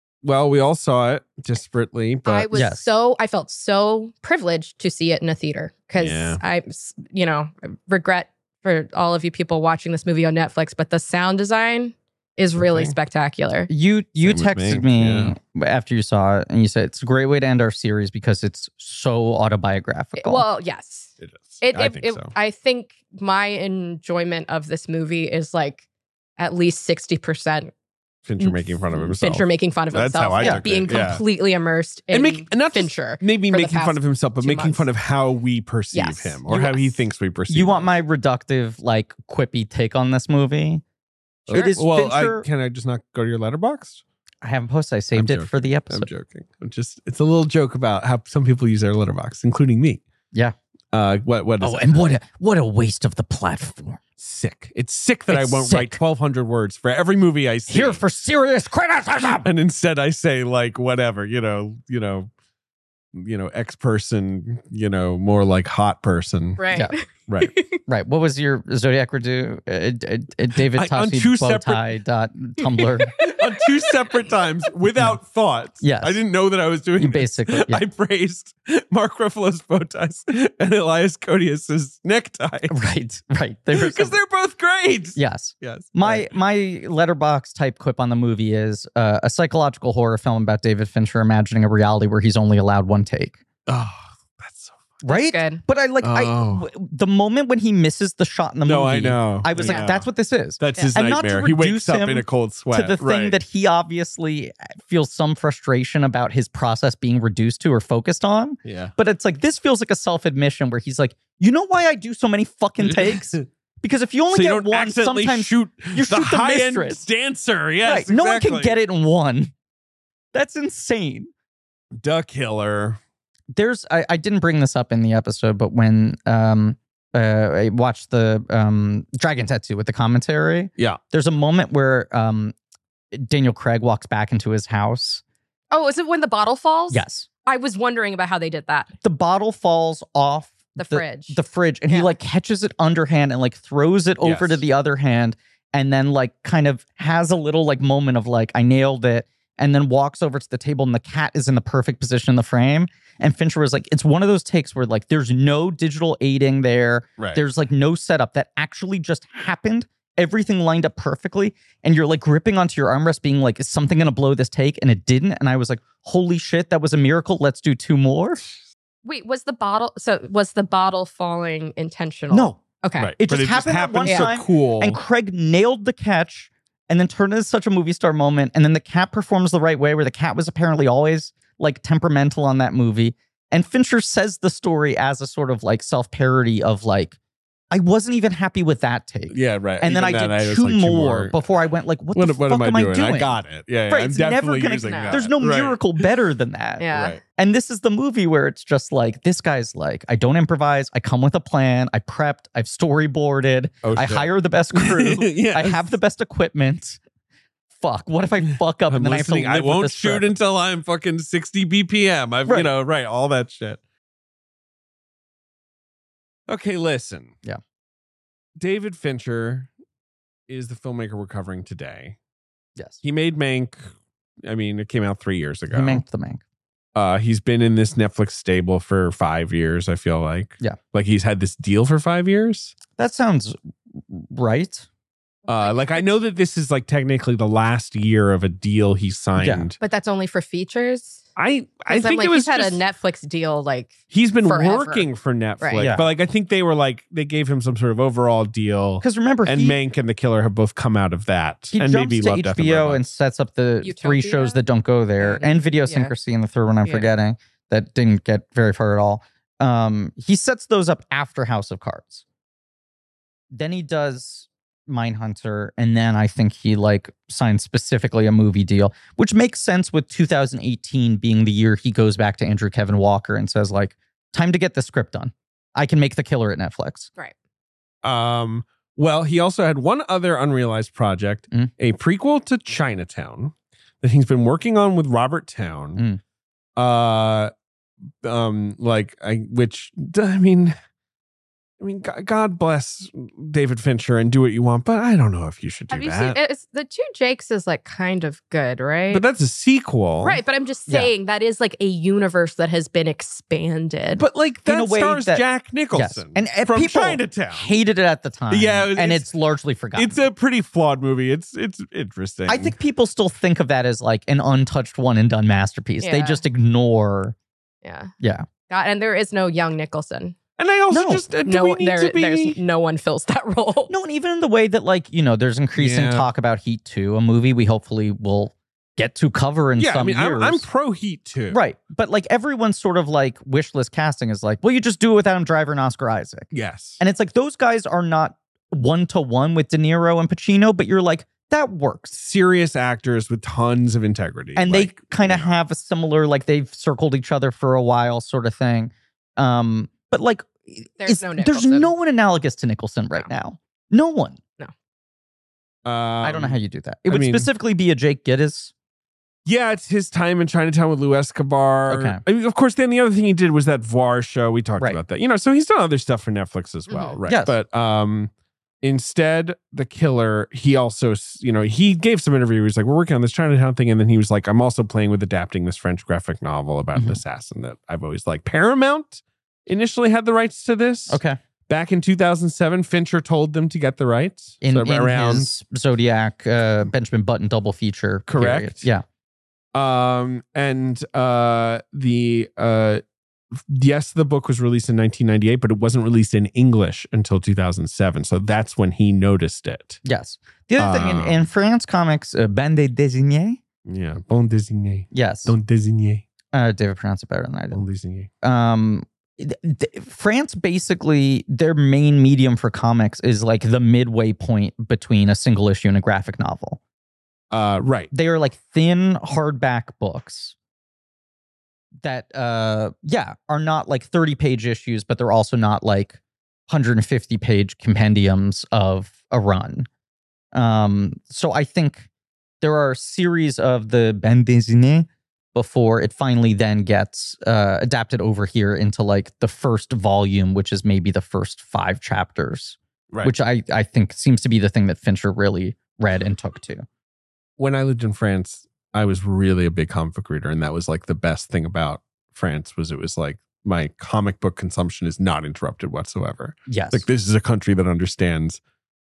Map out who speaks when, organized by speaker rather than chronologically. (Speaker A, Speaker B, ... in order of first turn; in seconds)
Speaker A: 0.2-2.5, 6.0-6.4, 12.6-12.9, 14.2-15.3, 21.2-22.3, 28.2-31.2, 32.1-37.9, 41.5-44.0, 45.1-50.0, 50.9-52.1, 54.2-58.0, 59.4-62.3, 63.1-66.6, 67.3-67.5, 70.6-71.8, 73.2-82.7, 83.7-86.3, 93.7-94.9, 96.0-96.7, 98.6-100.1, 100.6-103.4, 108.6-108.9, 112.8-113.4, 114.3-118.8, 122.0-123.0, 144.2-144.6, 157.2-157.4, 173.0-175.0, 189.3-191.4, 192.1-196.0, 196.9-197.2, 203.8-205.9, 208.9-213.8, 216.5-217.3, 218.6-219.7, 220.5-222.2, 223.0-223.8, 224.4-226.0, 226.9-232.8, 235.5-239.8, 241.4-242.8, 244.1-253.1, 278.0-286.0, 286.8-287.5, 288.2-290.7, 291.8-296.4, 299.1-300.4, 304.1-307.7, 308.5-309.3, 309.9-312.7, 320.6-322.6, 325.8-326.3, 329.8-331.6, 336.5-337.0, 342.1-345.5, 355.9-356.6, 357.1-357.5, 359.4-368.3, 368.8-385.5, 388.3-388.9, 389.7-393.0, 393.7-400.0, 400.8-401.4, 403.9-406.2, 407.7-408.3, 417.5-418.1, 447.6-458.6
Speaker B: 2.2-13.7, 20.2-25.8, 26.4-27.7, 28.4-34.9, 35.9-36.9, 66.6-67.8, 73.2-73.9, 95.1-95.6, 99.6-99.9, 135.7-138.9, 140.7-142.1, 169.0-173.1, 174.1-174.3, 194.8-195.2, 196.8-197.2, 235.5-236.1, 239.8-241.2, 241.9-245.1, 245.6-245.9, 253.8-254.6, 255.2-256.1, 295.9-299.2, 300.2-304.2, 316.0-316.4, 317.8-318.1, 318.7-320.4, 321.4-323.9, 351.0-351.9, 366.9-367.2
Speaker C: 2.5-2.9, 13.7-20.4, 37.5-40.8, 41.5-42.5, 44.4-46.1, 51.6-54.0, 55.3-56.0, 57.7-59.5, 67.9-73.2, 75.8-76.2, 77.0-77.8, 82.7-84.2, 85.1-93.4, 95.0-117.0, 117.8-119.5, 120.3-121.3, 123.5-132.5, 133.1-135.2, 136.9-137.3, 139.0-168.4, 172.3-172.6, 173.2-187.2, 187.7-207.0, 207.8-210.3, 225.7-226.4, 233.0-233.6, 234.1-234.9, 239.4-239.7, 245.8-246.1, 249.0-249.8, 251.7-262.2, 263.5-277.1, 285.9-286.2, 304.6-310.2, 312.5-317.4, 318.2-318.4, 320.9-321.2, 323.9-330.6, 331.5-342.1, 344.6-354.4, 356.2-358.7, 361.9-362.2, 367.3-367.5, 376.9-377.2, 381.1-381.4, 384.6-389.0, 400.0-403.6, 405.1-405.6, 406.5-407.8, 408.4-416.8, 418.1-420.6, 422.0-429.9, 430.5-432.1, 432.6-446.9, 456.7-457.1